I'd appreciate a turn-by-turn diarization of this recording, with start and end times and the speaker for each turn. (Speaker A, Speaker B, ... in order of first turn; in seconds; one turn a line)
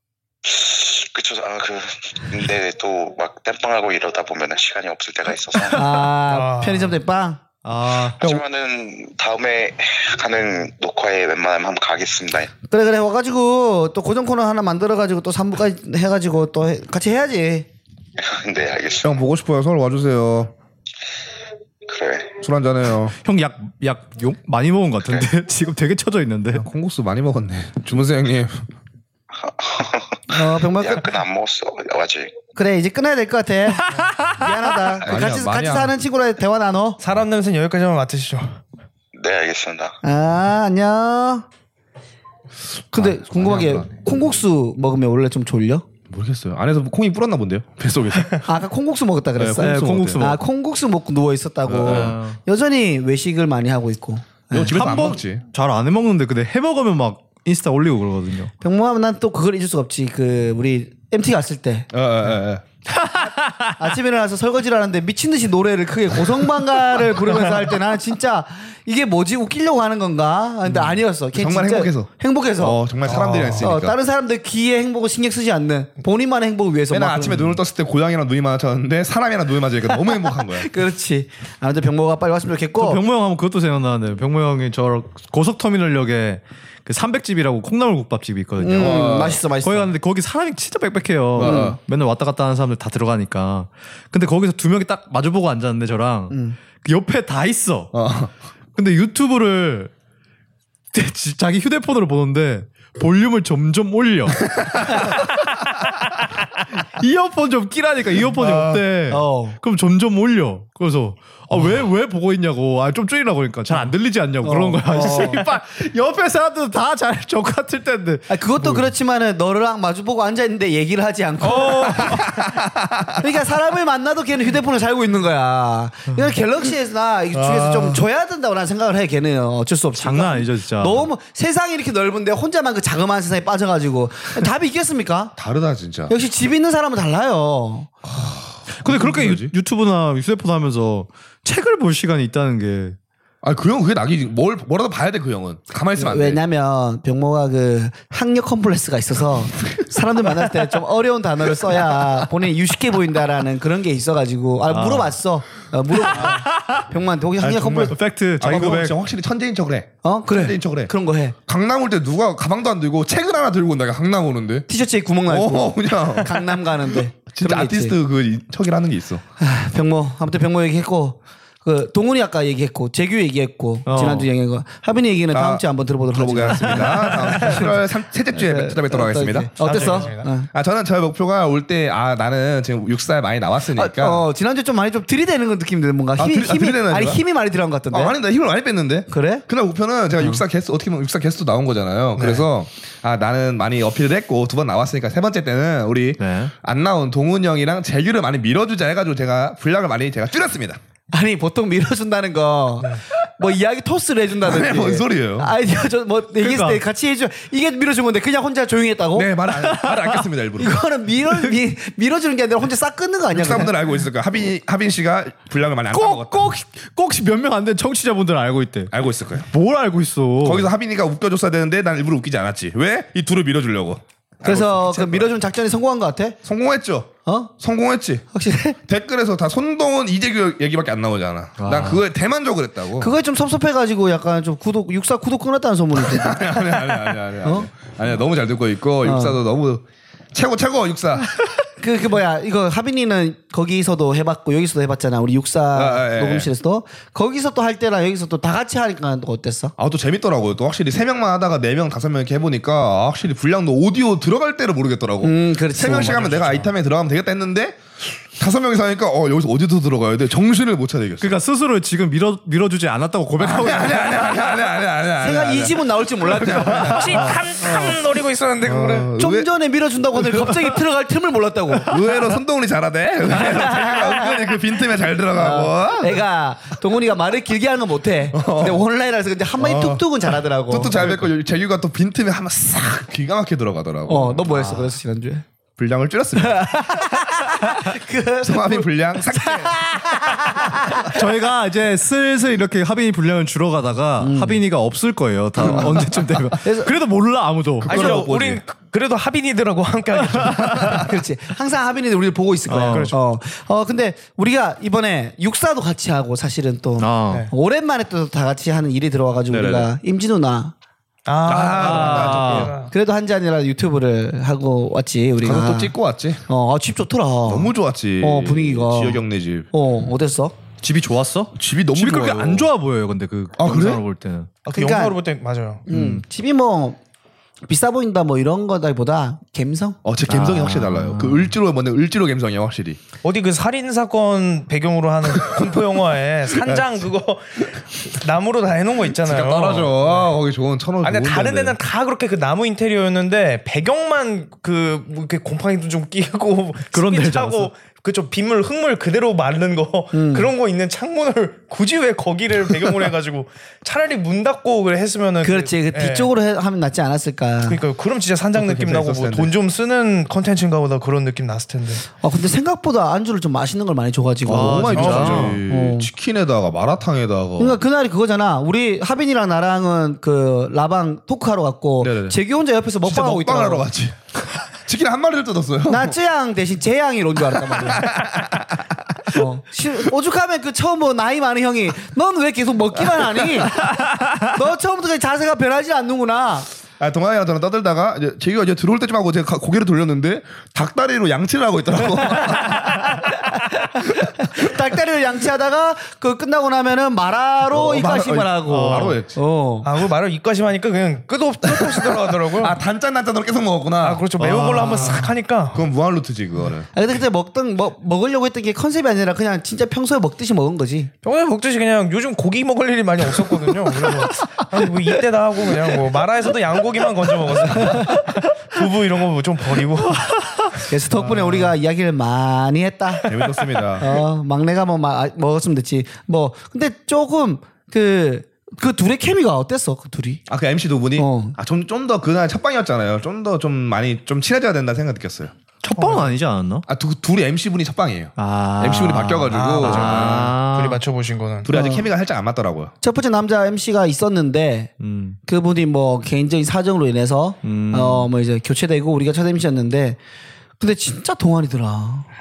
Speaker A: 0.5-6.0
Speaker B: 5.7-7.4
Speaker C: 6.3-7.0
Speaker D: 7.6-8.4
Speaker A: 8.1-12.5
Speaker B: 12.7-17.7
Speaker A: 18.2-19.2
Speaker E: 19.0-20.5
Speaker A: 21.9-22.4
Speaker E: 22.4-23.1
Speaker D: 23.2-26.7
Speaker E: 26.5-28.7
Speaker A: 29.4-32.4
Speaker B: 30.3-31.1
Speaker B: 32.5-37.0
Speaker D: 33.9-34.5
Speaker E: 35.0-36.0
Speaker C: 37.0-38.6
Speaker A: 39.1-40.0
Speaker B: 40.0-41.5
Speaker B: 42.9-45.9
Speaker E: 42.9-44.0
Speaker E: 46.1-48.4
Speaker B: 48.4-54.7
Speaker E: 49.4-50.4
Speaker D: 49.6-50.4
Speaker E: 51.7-52.2
Speaker D: 51.9-52.4
Speaker E: 54.5-55.4
Speaker D: 54.7-58.5
Speaker B: 58.6-61.9
Speaker E: 61.9-62.6
Speaker D: 63.0-63.8
Speaker B: 63.8-72.8
Speaker E: 71.3-74.0
Speaker C: 73.0-73.7
Speaker B: 73.6-77.6
Speaker E: 76.9-80.7
Speaker B: 79.9-83.0
Speaker D: 82.8-97.9
Speaker B: 88.6-89.9
Speaker E: 88.8-89.4
Speaker E: 91.3-91.8
Speaker B: 91.4-91.8
Speaker B: 96.3-96.6
Speaker E: 97.9-98.3
Speaker D: 98.8-99.9
Speaker D: 100.9-118.9
Speaker E: 104.5-105.1
Speaker E: 108.3-108.8
Speaker B: 109.1-109.6
Speaker B: 114.4-115.5
Speaker B: 118.3-122.4
Speaker D: 121.4-122.4
Speaker E: 122.1-123.2
Speaker B: 123.2-135.3
Speaker E: 127.3-128.0
Speaker D: 130.0-131.1
Speaker E: 135.4-136.1
Speaker B: 136.1-137.9
Speaker E: 138.0-139.5
Speaker D: 138.8-143.0
Speaker E: 143.4-146.4
Speaker B: 146.0-158.0
Speaker D: 154.7-155.2
Speaker D: 155.9-156.9
Speaker E: 157.4-160.9
Speaker D: 157.9-159.0
Speaker B: 160.0-161.4
Speaker E: 161.5-164.7
Speaker B: 164.7-168.0
Speaker E: 165.3-166.4
Speaker E: 167.3-169.2
Speaker B: 169.4-180.5
Speaker D: 173.9-174.3
Speaker E: 175.3-184.2
Speaker C: 179.6-180.3
Speaker B: 183.7-188.2
Speaker E: 186.2-187.2
Speaker E: 187.9-200.8
Speaker B: 189.1-189.4
Speaker C: 192.2-192.5
Speaker D: 196.2-196.5
Speaker B: 201.1-209.5
Speaker E: 204.4-205.5
Speaker D: 206.4-206.8
Speaker E: 209.1-210.8
Speaker B: 210.6-213.7
Speaker E: 213.3-216.5
Speaker D: 215.9-218.9
Speaker E: 218.9-219.5
Speaker D: 219.5-220.7
Speaker E: 220.4-225.3
Speaker B: 224.4-226.4
Speaker E: 226.4-228.2
Speaker B: 227.3-227.5
Speaker B: 228.3-228.8
Speaker E: 228.9-233.1
Speaker D: 231.6-232.0
Speaker B: 233.0-237.7
Speaker E: 235.9-241.4
Speaker B: 239.0-239.4
Speaker B: 241.8-249.7
Speaker E: 245.7-246.5
Speaker E: 249.8-261.4
Speaker B: 255.2-256.5
Speaker C: 256.1-256.6
Speaker D: 261.2-264.2
Speaker E: 263.4-267.4
Speaker B: 265.2-267.9
Speaker C: 266.9-269.1
Speaker E: 268.6-269.5
Speaker B: 269.2-272.0
Speaker E: 271.8-276.2
Speaker B: 273.4-274.3
Speaker B: 275.3-281.1
Speaker E: 278.3-278.8
Speaker E: 279.6-280.1
Speaker E: 280.7-284.6
Speaker B: 284.1-285.4
Speaker D: 284.6-284.9
Speaker E: 285.8-286.8
Speaker B: 286.4-291.2
Speaker E: 288.4-289.8
Speaker D: 291.1-298.3
Speaker B: 294.2-294.6
Speaker B: 295.6-296.9
Speaker E: 297.8-298.6
Speaker C: 297.9-301.1
Speaker D: 300.4-300.7
Speaker B: 300.9-310.7
Speaker D: 302.7-303.2
Speaker C: 302.8-303.2
Speaker D: 307.0-307.5
Speaker E: 309.5-309.9
Speaker C: 311.3-312.9
Speaker E: 311.5-312.7
Speaker D: 311.7-312.8
Speaker B: 312.8-315.9
Speaker E: 315.4-316.4
Speaker B: 316.5-319.2
Speaker E: 317.5-319.7
Speaker B: 319.7-320.6
Speaker D: 320.8-324.5
Speaker E: 321.6-322.7
Speaker E: 323.6-324.0
Speaker C: 324.7-325.9
Speaker B: 324.7-325.2
Speaker B: 325.9-327.0
Speaker D: 325.9-326.2
Speaker B: 327.7-330.0
Speaker E: 330.1-333.0
Speaker D: 330.3-331.5
Speaker C: 333.2-340.3
Speaker E: 336.6-336.9
Speaker E: 339.1-341.8
Speaker C: 341.0-356.3
Speaker D: 346.9-347.7
Speaker B: 350.1-350.5
Speaker B: 355.4-357.8
Speaker C: 357.7-362.1
Speaker E: 358.6-359.5
Speaker B: 362.2-366.1
Speaker D: 364.5-365.6
Speaker E: 364.5-367.8
Speaker C: 364.9-365.5
Speaker B: 367.6-373.9
Speaker E: 372.0-372.4
Speaker E: 373.0-376.2
Speaker B: 375.9-378.2
Speaker E: 377.5-379.4
Speaker B: 379.3-386.7
Speaker D: 383.9-384.5
Speaker E: 387.0-393.4
Speaker B: 393.2-399.9
Speaker E: 397.7-399.4
Speaker D: 398.7-399.2
Speaker C: 399.8-402.8
Speaker E: 401.6-404.3
Speaker C: 404.0-405.9
Speaker D: 404.4-405.3
Speaker E: 405.7-406.9
Speaker B: 406.9-411.1
Speaker C: 411.2-420.7
Speaker B: 420.9-423.3
Speaker C: 423.2-423.5
Speaker E: 423.2-424.2
Speaker B: 424.0-430.4
Speaker E: 430.5-435.5
Speaker B: 431.2-431.6
Speaker D: 435.8-436.9
Speaker E: 436.9-440.6
Speaker D: 438.4-441.0
Speaker C: 439.5-441.7
Speaker E: 441.6-442.9
Speaker B: 441.7-442.1
Speaker B: 443.0-444.9
Speaker D: 445.0-445.4
Speaker B: 445.5-450.2
Speaker D: 447.6-448.3
Speaker B: 450.8-452.3